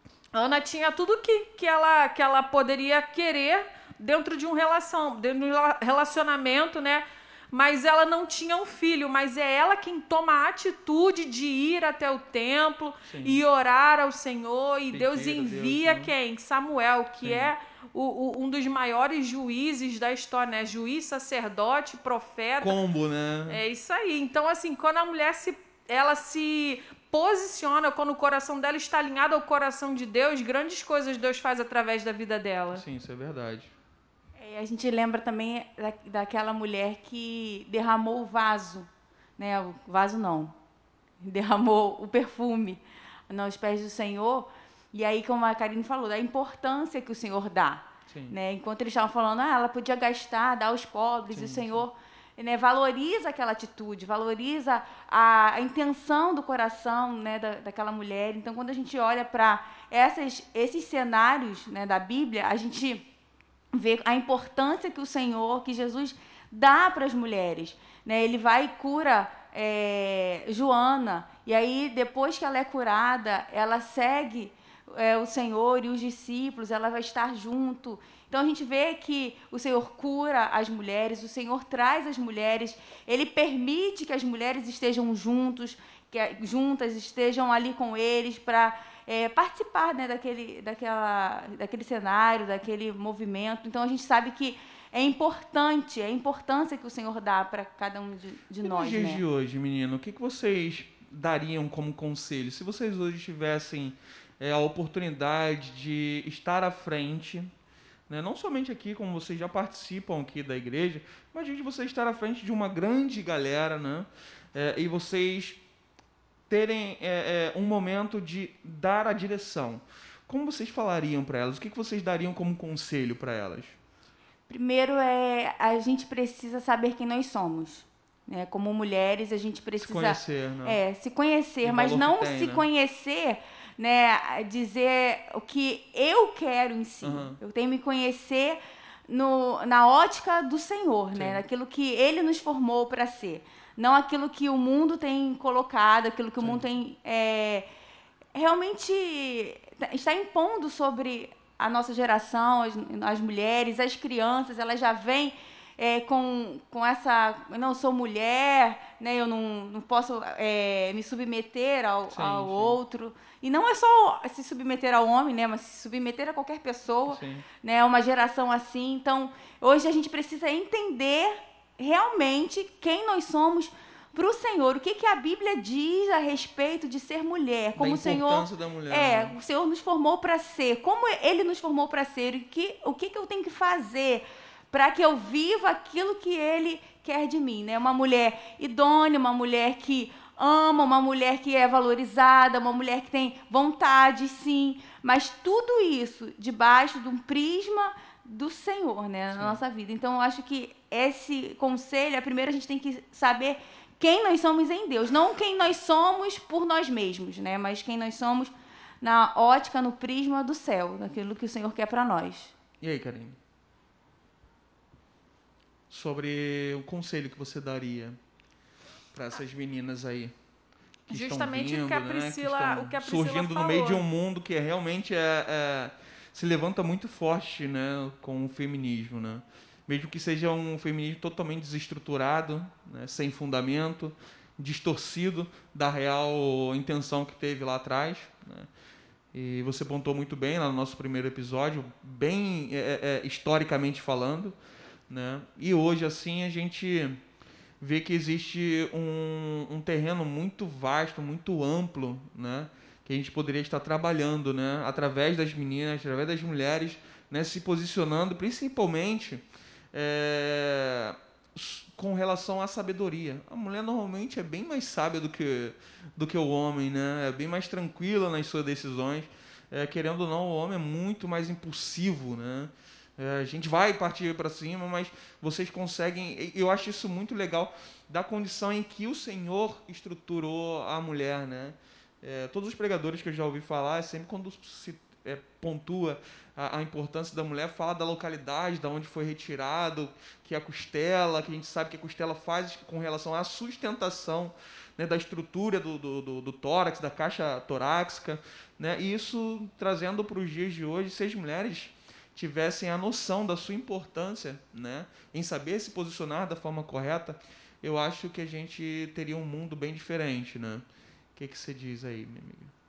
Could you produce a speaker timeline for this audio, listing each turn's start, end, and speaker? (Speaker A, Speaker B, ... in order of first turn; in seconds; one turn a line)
Speaker A: 0.3-22.8
Speaker B: 13.1-13.4
Speaker B: 14.9-16.1
Speaker B: 17.2-17.5
Speaker B: 22.6-23.6
Speaker A: 23.5-32.8
Speaker B: 32.7-33.7
Speaker C: 34.4-40.5
Speaker C: 41.2-63.0
Speaker B: 48.1-48.3
Speaker B: 51.3-51.8
Speaker C: 63.7-99.2
Speaker B: 98.6-107.5
Speaker B: 108.1-115.6
Speaker B: 116.5-123.8
Speaker C: 124.5-147.7
Speaker B: 129.8-130.8
Speaker B: 131.6-132.7
Speaker B: 137.0-137.4
Speaker B: 141.1-141.4
Speaker B: 146.4-146.6
Speaker C: 148.3-212.5
Speaker B: 162.1-162.8
Speaker B: 167.1-167.4
Speaker B: 177.7-179.3
Speaker B: 199.3-199.6
Speaker B: 212.8-213.4
Speaker B: 215.9-218.2
Speaker B: 219.1-220.3
Speaker B: 221.1-238.7
Speaker A: 221.1-224.0
Speaker B: 239.3-244.6
Speaker B: 245.1-247.2
Speaker B: 247.8-310.8
Speaker B: 311.4-312.7